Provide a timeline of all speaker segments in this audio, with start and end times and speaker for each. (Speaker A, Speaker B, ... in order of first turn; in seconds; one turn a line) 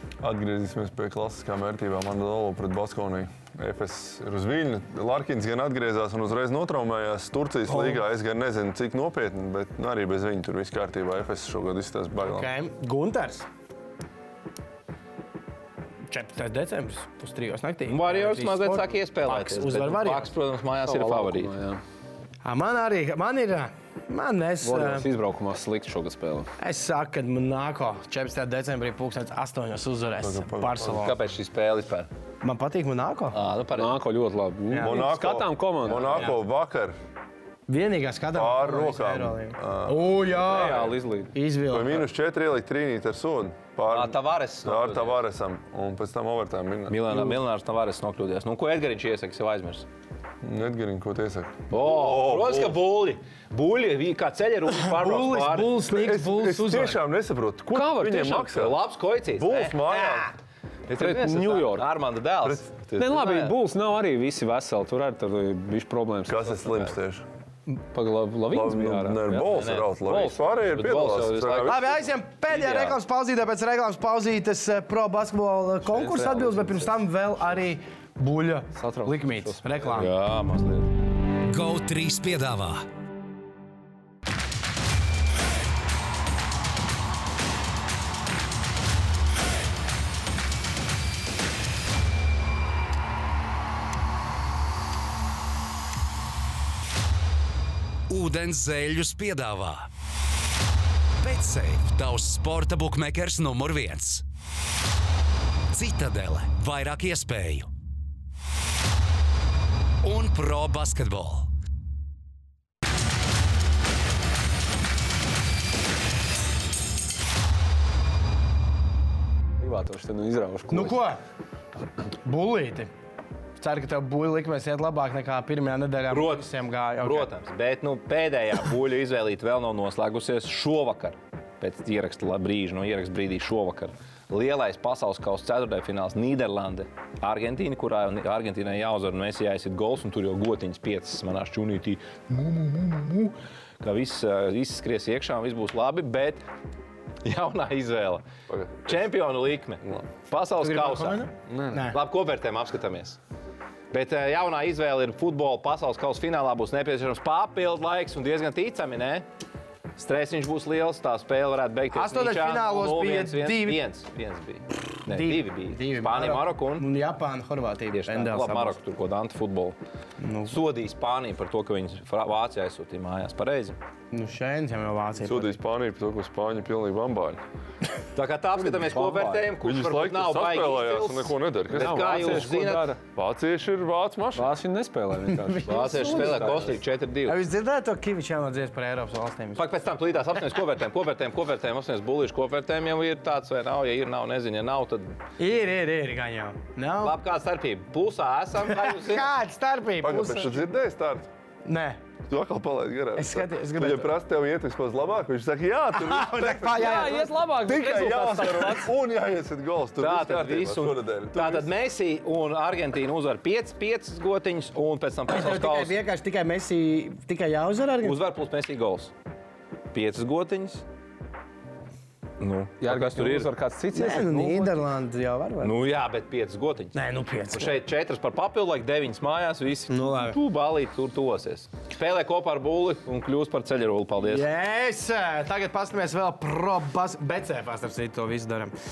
Speaker A: 0.2-12.5
Speaker B: 7.7-8.0
Speaker B: 12.2-13.5
Speaker B: 16.1-20.3
Speaker C: 17.8-21.5
Speaker D: 20.9-21.8
Speaker B: 22.4-25.1
Speaker D: 24.6-26.5
Speaker B: 26.6-31.2
Speaker A: 30.2-31.0
Speaker C: 30.9-32.1
Speaker B: 32.4-33.4
Speaker C: 33.3-33.9
Speaker D: 33.7-36.3
Speaker B: 34.7-35.1
Speaker A: 34.8-37.0
Speaker C: 35.9-36.2
Speaker B: 37.7-42.0
Speaker A: 38.3-40.6
Speaker D: 40.3-41.3
Speaker A: 41.7-47.4
Speaker C: 43.9-45.2
Speaker C: 46.9-49.9
Speaker A: 50.4-52.8
Speaker C: 51.7-55.8
Speaker B: 54.8-57.0
Speaker A: 55.9-58.8
Speaker D: 57.7-58.6
Speaker C: 58.5-60.0
Speaker A: 59.3-60.3
Speaker B: 59.9-60.3
Speaker C: 60.9-63.5
Speaker D: 60.9-61.8
Speaker D: 63.0-66.9
Speaker A: 66.3-67.2
Speaker D: 67.7-70.6
Speaker A: 68.5-71.8
Speaker C: 69.5-70.0
Speaker C: 70.5-73.0
Speaker B: 71.6-80.1
Speaker D: 75.9-76.9
Speaker D: 78.8-80.0
Speaker C: 79.9-80.9
Speaker E: 81.5-82.8
Speaker E: 98.1-99.9
Speaker E: 101.2-104.2
Speaker E: 105.7-107.7
Speaker E: 110.0-111.5
Speaker D: 119.6-121.0
Speaker B: 120.7-121.2
Speaker B: 122.2-122.9
Speaker B: 123.6-127.3
Speaker C: 126.1-126.5
Speaker C: 127.0-146.4
Speaker C: 147.2-148.2
Speaker A: 148.5-149.1
Speaker C: 148.8-151.3
Speaker A: 149.8-150.1
Speaker B: 150.6-152.0
Speaker A: 151.5-151.8
Speaker C: 151.9-153.2
Speaker C: 153.9-159.2
Speaker C: 159.9-166.9
Speaker B: 161.9-163.8
Speaker B: 165.1-168.8
Speaker C: 167.9-169.8
Speaker B: 170.2-170.6
Speaker C: 170.4-173.8
Speaker B: 174.1-175.6
Speaker A: 175.2-177.4
Speaker C: 178.1-182.9
Speaker D: 178.7-179.5
Speaker A: 179.6-182.5
Speaker D: 181.7-183.0
Speaker A: 183.1-184.5
Speaker D: 184.3-186.8
Speaker B: 185.3-186.4
Speaker C: 185.6-187.4
Speaker B: 187.2-189.6
Speaker C: 189.6-195.2
Speaker B: 195.4-197.2
Speaker C: 197.0-199.3
Speaker B: 198.6-200.6
Speaker A: 200.0-201.3
Speaker B: 201.6-202.0
Speaker A: 202.3-211.7
Speaker B: 203.2-204.1
Speaker B: 205.9-207.3
Speaker D: 206.7-208.9
Speaker C: 210.0-216.0
Speaker B: 215.3-218.2
Speaker C: 218.0-219.1
Speaker C: 219.9-220.8
Speaker C: 222.4-223.5
Speaker D: 222.8-224.9
Speaker B: 223.9-225.7
Speaker C: 225.6-227.0
Speaker B: 226.9-227.8
Speaker C: 227.5-234.5
Speaker B: 229.9-230.4
Speaker B: 234.2-238.7